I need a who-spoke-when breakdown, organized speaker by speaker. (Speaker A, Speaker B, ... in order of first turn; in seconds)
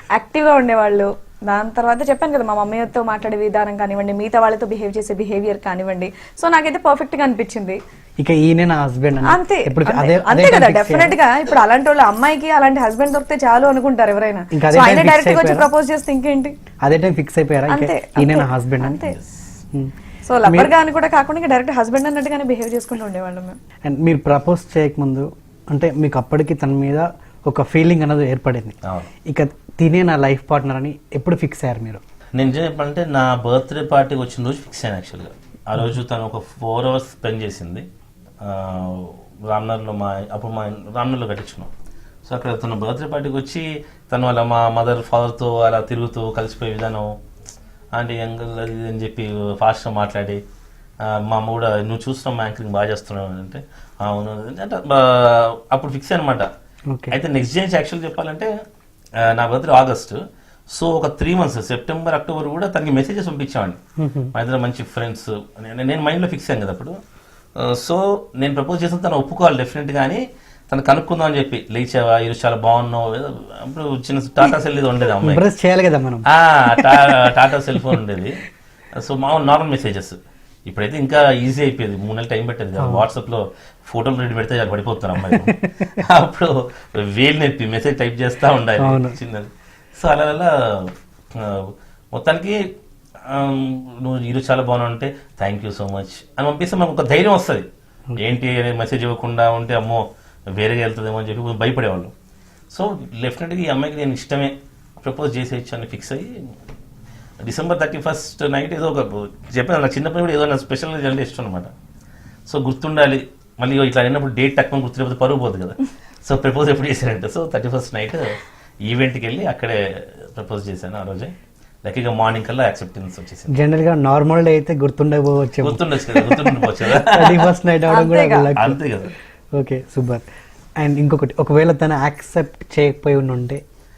Speaker A: 0.1-7.8, 9.2-16.5, 17.7-19.2, 20.2-23.6, 127.9-128.5
Speaker B: 8.2-11.2, 14.5-15.7, 16.8-19.1, 20.5-20.7, 23.8-28.8, 29.3-32.0, 56.9-57.1, 64.0-64.3, 75.2-76.9, 82.8-83.0, 85.2-85.6, 88.8-89.2, 123.5-128.8, 129.5-130.2, 130.8-133.6
Speaker C: 28.8-29.1, 32.4-37.9, 38.4-41.7, 42.2-47.1, 47.9-50.4, 51.0-56.5, 57.1-58.5, 59.2-63.8, 64.3-67.0, 67.6-75.4, 76.3-78.4, 79.0-92.6, 93.3-97.6, 98.2-100.0, 100.5-102.1, 102.7-106.3, 107.4-111.7, 112.5-121.3, 121.8-123.5, 125.6-127.5, 128.5-129.1